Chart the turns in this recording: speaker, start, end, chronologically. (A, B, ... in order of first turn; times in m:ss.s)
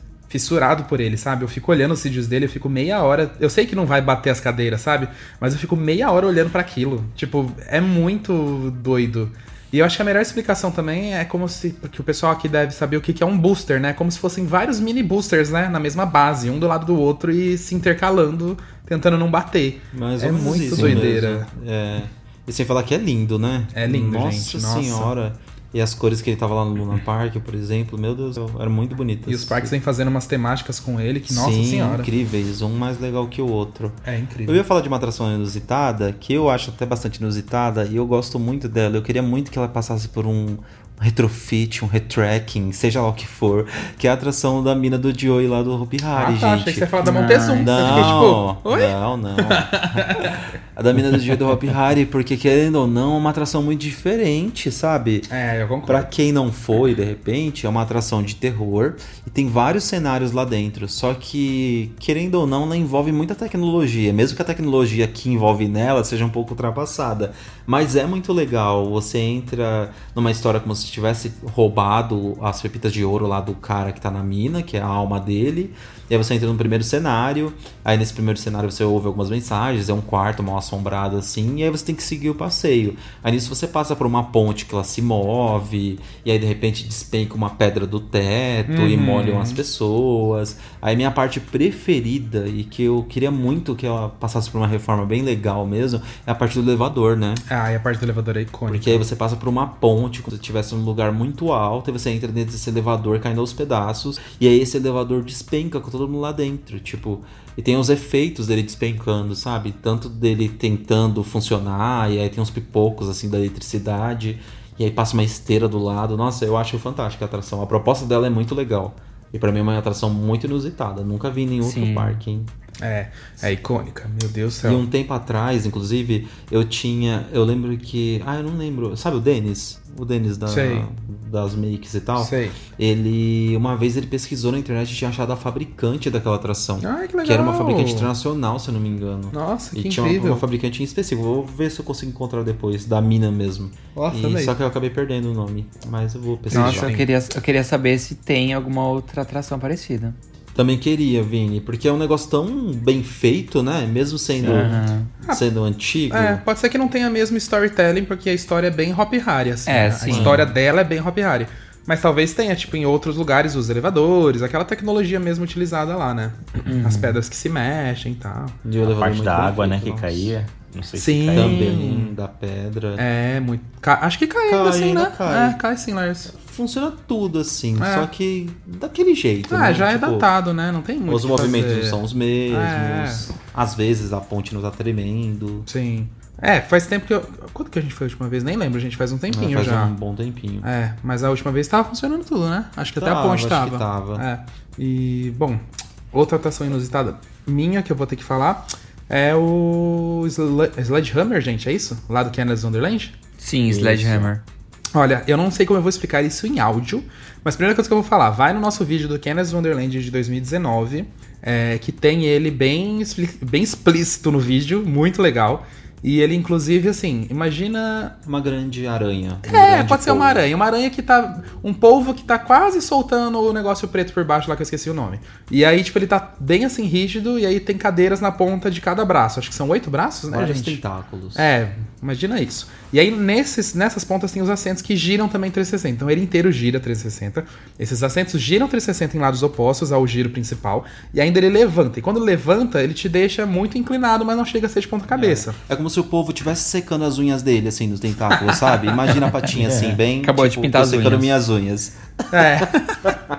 0:00.3-0:21.5 A
0:19.9-0:29.7 B
0:23.7-0:25.1 A
0:29.3-0:32.1 A
0:31.3-0:46.9 B
0:34.0-0:34.6 A
0:46.2-0:48.9 A
0:47.0-0:48.3 C
0:47.6-0:55.3 B
0:49.5-0:50.3 A
0:55.3-0:56.1 A
0:55.9-1:37.4 B
1:28.7-1:29.6 A
1:37.5-1:39.0 A
1:38.7-2:02.5 B
2:01.6-2:02.2 C
2:02.8-2:04.8 A
2:04.6-2:26.9 B
2:10.5-2:10.9 A
2:12.2-2:12.6 A
2:16.8-2:18.1 A
2:19.3-2:20.4 A
2:23.9-2:24.5 A
2:26.5-2:30.2 C
2:26.5-2:27.1 A
2:30.6-2:34.8 B
2:34.4-2:34.7 D
2:34.4-2:35.1 C
2:35.3-2:36.4 B
2:36.1-2:48.6 A
2:39.7-2:40.4 C
2:40.1-2:40.5 B
2:46.6-2:47.2 C
2:48.6-2:50.3 B
2:48.8-2:51.7 D
2:51.0-2:52.1 A
2:51.3-2:53.0 B
2:53.0-2:56.3 A
2:54.5-2:55.6 B
2:56.3-3:00.3 B
2:57.8-2:58.1 A
2:59.5-3:03.3 A
3:01.1-3:05.7 B
3:05.7-3:09.9 A
3:09.3-3:10.7 B
3:10.6-3:23.2 A
3:13.0-3:14.2 B
3:23.4-3:24.4 C
3:23.7-3:24.3 D
3:24.9-3:38.2 A
3:38.3-3:40.5 B
3:39.4-3:50.8 A
3:50.3-3:51.5 B
3:51.4-4:05.6 A
4:05.1-4:13.1 B
4:09.7-4:10.0 D
4:10.2-4:11.4 C
4:12.3-4:13.1 A